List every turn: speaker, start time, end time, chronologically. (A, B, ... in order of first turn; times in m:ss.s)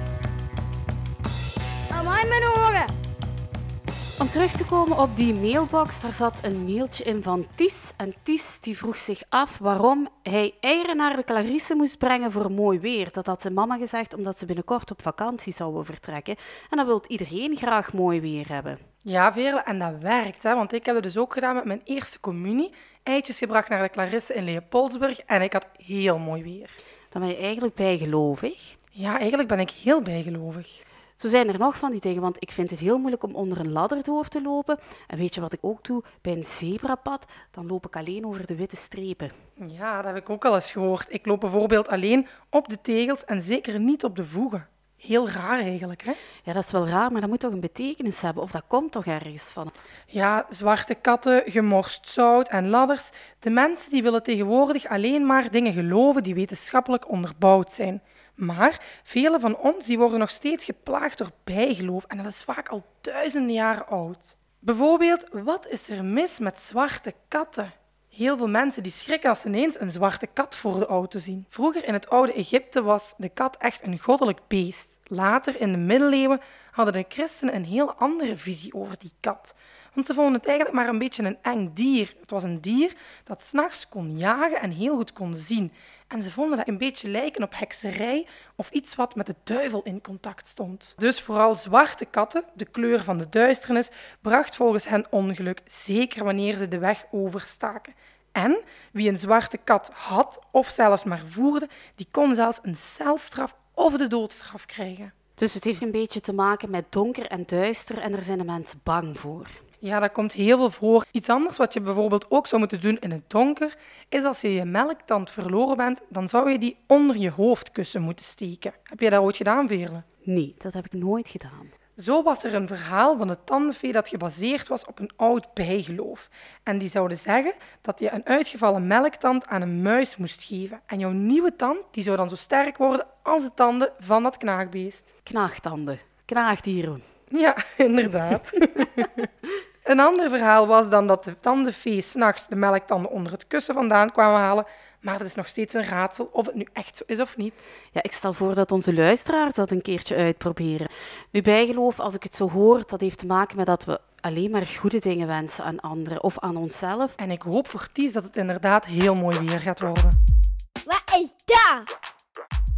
0:01.9-0:02.9 A
0:04.2-0:18.8 B
0:19.0-0:26.8 C
0:27.1-0:28.8 B
0:29.0-0:30.8 C
0:31.2-0:39.3 B
0:39.6-0:46.2 C
0:46.4-0:49.7 B
0:50.1-1:45.1 C
1:45.4-1:49.6 B
1:49.8-2:00.0 C
2:00.3-2:01.7 B
2:02.0-2:15.1 C
2:15.3-2:17.0 B
2:17.3-2:19.2 C
2:19.8-2:27.7 C
2:27.9-2:37.2 B
2:37.2-2:40.2 C
2:40.9-2:41.9 A